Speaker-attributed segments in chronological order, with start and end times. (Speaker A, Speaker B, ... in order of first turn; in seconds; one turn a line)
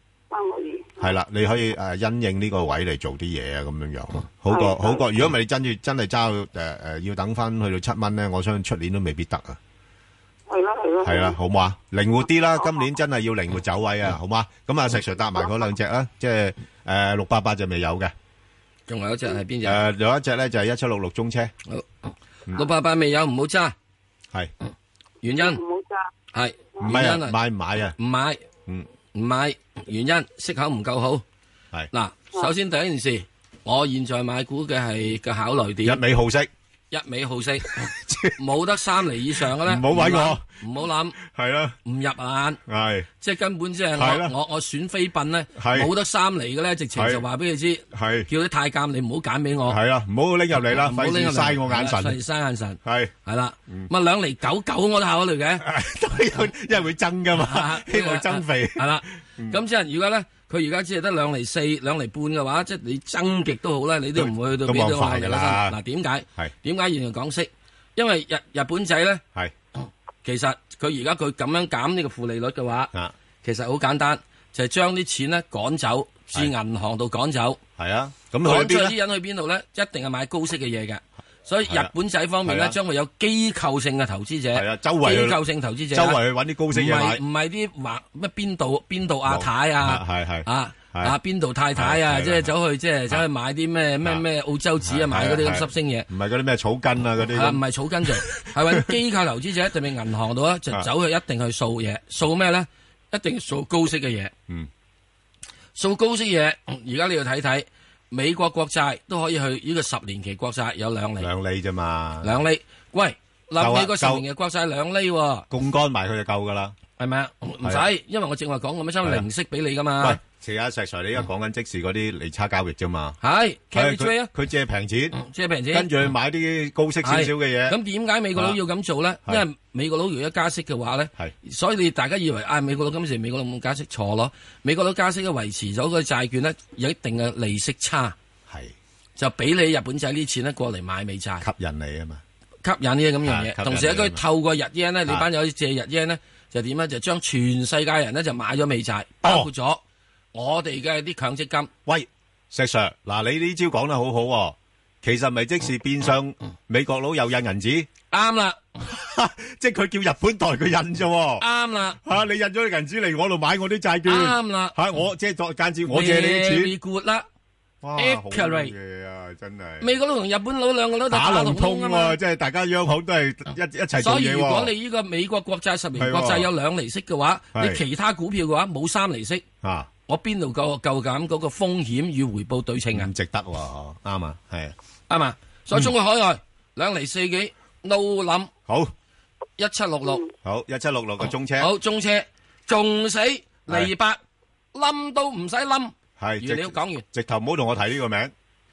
Speaker A: 0.3-1.1
Speaker B: 1.0-9.6
Speaker A: 4.5-5.0
Speaker A: 10.5-11.4
Speaker B: 11.0-18.1
Speaker C: 18.9-19.8
Speaker B: 19.6-21.5
Speaker C: 22.5-23.8
Speaker C: 25.2-25.6
Speaker A: 25.4-26.1
Speaker C: 26.3-27.4
Speaker B: 26.8-27.9
Speaker C: 28.0-28.4
Speaker C: 29.1-31.2
Speaker C: 31.9-36.0
Speaker B: 35.8-36.5
Speaker C: 36.9-41.2
Speaker B: 37.7-38.4
Speaker B: 39.5-40.4
Speaker B: 41.2-41.8
Speaker C: 41.8-42.6
Speaker B: 42.6-43.1
Speaker C: 43.2-49.8
Speaker B: 44.0-44.3
Speaker B: 45.5-45.9
Speaker B: 46.9-47.2
Speaker B: 47.9-48.3
Speaker B: 49.6-52.2
Speaker C: 50.6-55.6
Speaker B: 52.8-53.1
Speaker B: 55.6-59.6
Speaker C: 57.3-69.2
Speaker B: 64.1-65.8
Speaker C: 70.2-72.9
Speaker C: 73.4-77.6
Speaker B: 77.8-79.0
Speaker C: 78.4-96.1
Speaker B: 81.7-81.9
Speaker B: 82.4-82.8
Speaker B: 84.5-87.2
Speaker B: 89.2-91.2
Speaker B: 91.8-92.5
Speaker B: 94.8-98.9
Speaker C: 97.3-104.3
Speaker C: 105.8-111.3
Speaker B: 111.2-112.4
Speaker C: 112.2-115.5
Speaker B: 113.5-114.2
Speaker B: 115.5-116.8
Speaker C: 117.0-120.2
Speaker B: 120.0-123.2
Speaker C: 123.2-124.3
Speaker B: 123.7-125.2
Speaker C: 125.1-125.9
Speaker B: 125.7-127.8
Speaker C: 127.0-138.1
Speaker B: 138.5-138.8
Speaker C: 139.2-141.4
Speaker B: 141.4-142.2
Speaker C: 142.6-149.8
Speaker B: 143.2-144.2
Speaker B: 149.2-149.5
Speaker C: 150.3-151.7
Speaker B: 151.9-157.9
Speaker C: 158.1-158.6
Speaker B: 158.8-161.4
Speaker C: 161.4-162.0
Speaker B: 162.0-166.7
Speaker C: 164.1-164.8
Speaker C: 165.9-167.2
Speaker B: 167.8-169.9
Speaker C: 168.0-168.7
Speaker C: 169.8-172.2
Speaker B: 171.1-174.7
Speaker C: 173.9-179.4
Speaker B: 175.9-176.5
Speaker B: 177.5-177.8
Speaker B: 179.6-179.9
Speaker C: 180.1-183.1
Speaker B: 182.9-184.8
Speaker C: 185.1-188.5
Speaker B: 188.7-188.9
Speaker C: 189.6-190.2
Speaker A: 190.0-190.3
Speaker B: 190.4-191.7
Speaker C: 191.6-194.2
Speaker C: 194.7-197.0
Speaker B: 196.2-198.3